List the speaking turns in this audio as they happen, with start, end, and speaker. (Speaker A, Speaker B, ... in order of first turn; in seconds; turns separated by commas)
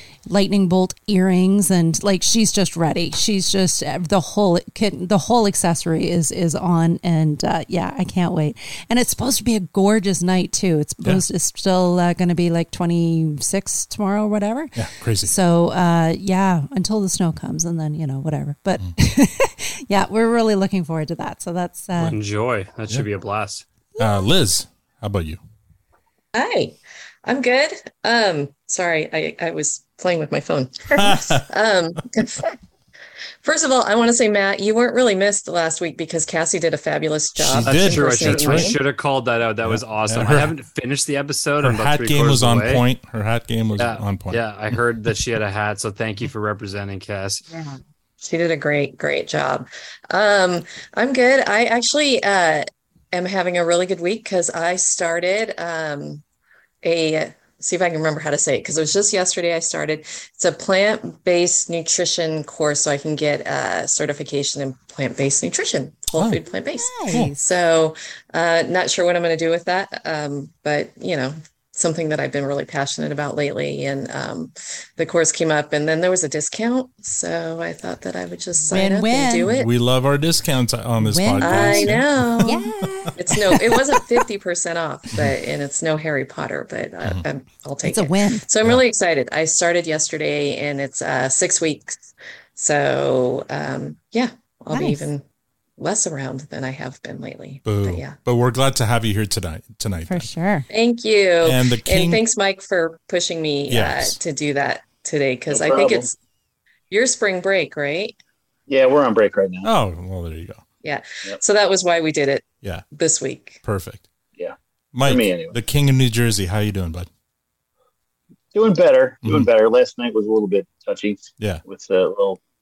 Speaker A: 0.3-22.2, Speaker B: 14.8-15.3, Speaker C: 22.1-23.6, Speaker A: 24.0-24.2, Speaker B: 24.0-25.4, Speaker D: 26.3-32.5, Speaker B: 30.9-31.4, Speaker D: 33.4-38.8, Speaker B: 37.4-38.8, Speaker C: 37.6-42.8, Speaker B: 39.6-40.5, Speaker B: 41.6-44.4, Speaker C: 43.8-47.4, Speaker D: 48.2-56.2, Speaker D: 56.8-79.7, Speaker B: 66.2-66.4, Speaker A: 66.8-67.4, Speaker A: 78.7-79.5, Speaker B: 79.5-82.4, Speaker A: 81.0-83.6, Speaker D: 81.4-92.0, Speaker A: 87.8-88.5, Speaker D: 92.6-95.2, Speaker A: 94.7-95.0, Speaker D: 95.8-98.2, Speaker B: 97.7-100.3, Speaker A: 100.1-100.7, Speaker D: 100.7-106.1, Speaker B: 101.4-102.2, Speaker B: 103.7-104.2, Speaker E: 105.5-106.1, Speaker D: 106.9-108.2, Speaker E: 108.7-109.7, Speaker B: 109.6-110.6, Speaker D: 110.8-113.6, Speaker B: 113.6-114.1, Speaker E: 114.4-115.6, Speaker B: 114.9-117.1, Speaker E: 118.5-122.4, Speaker B: 119.2-119.5